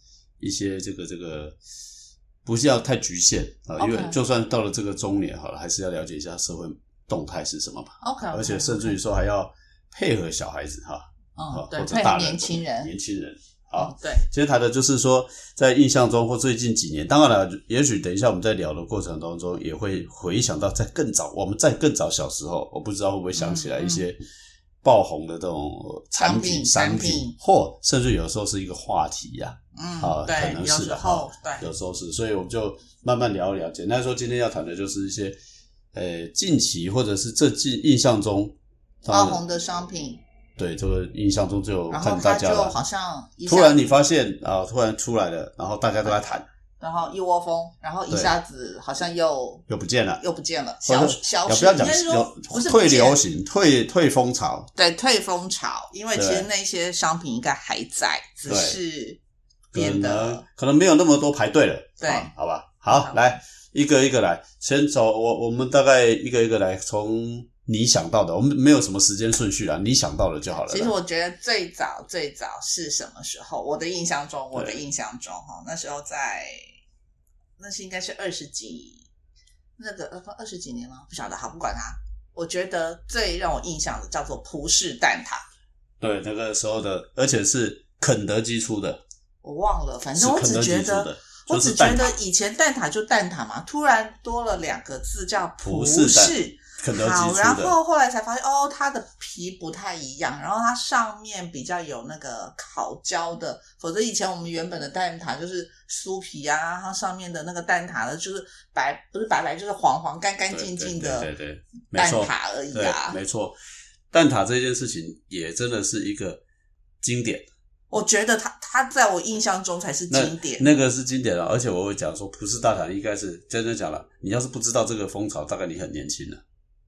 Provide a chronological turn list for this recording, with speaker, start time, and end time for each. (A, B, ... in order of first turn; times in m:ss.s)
0:00.4-0:01.6 A
0:02.4-0:24.2 A
0:03.8-0:04.2 B
0:08.0-0:09.0 B
0:11.4-0:12.9 B
0:13.7-0:14.3 B
0:23.3-0:24.1 B
0:24.8-0:35.4 A
0:26.2-0:27.3 B
0:29.7-0:31.7 B
0:35.9-0:38.5 A
0:39.0-0:40.2 B
0:39.0-0:39.4 A
0:40.6-0:42.8 A
0:41.9-0:43.8 B
0:43.4-0:46.4 A
0:46.8-0:49.6 B
0:49.7-0:50.2 A
0:50.2-0:53.2 B
0:50.8-0:54.7 A
0:54.7-0:59.2 B
0:56.1-0:56.5 A
0:58.4-0:58.8 A
0:59.7-1:10.9 A
0:59.7-1:00.4 B
1:02.0-1:02.3 B
1:02.9-1:03.2 B
1:10.5-1:16.6 B
1:14.5-1:14.8 A
1:17.6-1:19.1 B
1:19.8-1:25.4 B
1:26.0-1:29.0 A
1:29.4-1:51.3 B
1:30.1-1:32.1 A
1:35.6-1:37.7 A
1:50.5-1:53.6 A
1:51.9-1:53.2 B
1:54.1-1:56.4 A
1:57.0-1:57.4 A
1:57.9-2:00.8 B
2:00.1-2:06.4 A